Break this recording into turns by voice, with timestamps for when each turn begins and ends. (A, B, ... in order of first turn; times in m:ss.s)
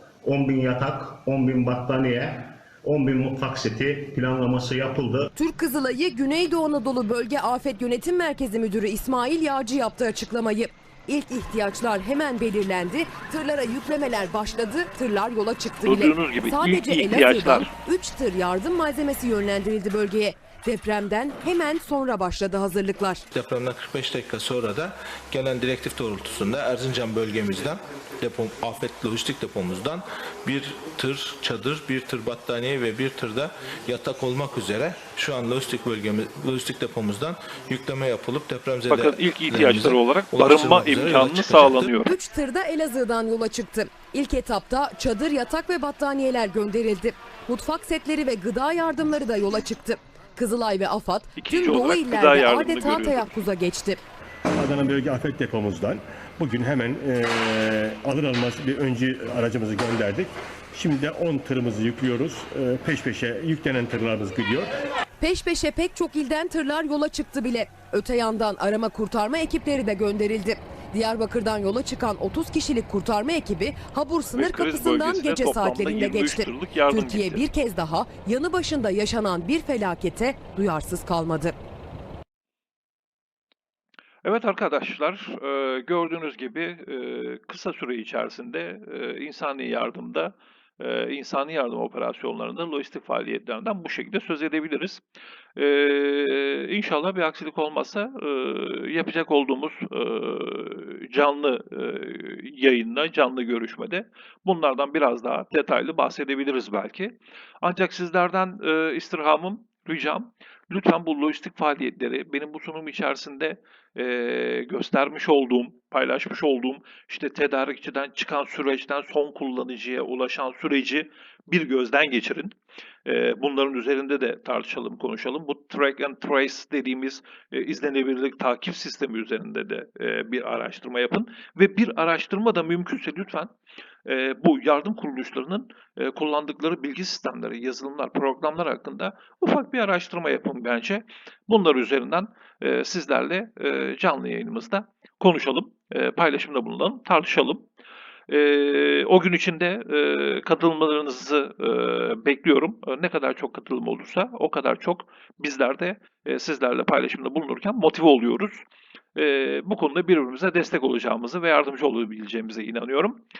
0:00.2-0:05.3 A
0:05.4-0:23.2 B
0:15.8-0:17.7 C
0:23.3-0:41.9 D
0:38.9-0:42.1 C
0:42.0-0:54.0 B
0:51.4-0:53.4 C
0:54.5-1:04.8 E
1:05.2-1:21.5 B
1:14.3-1:17.5 C
1:24.2-1:35.0 C
1:35.6-2:13.5 C
2:14.0-2:27.7 C
2:28.3-2:38.6 C
2:39.1-2:43.2 C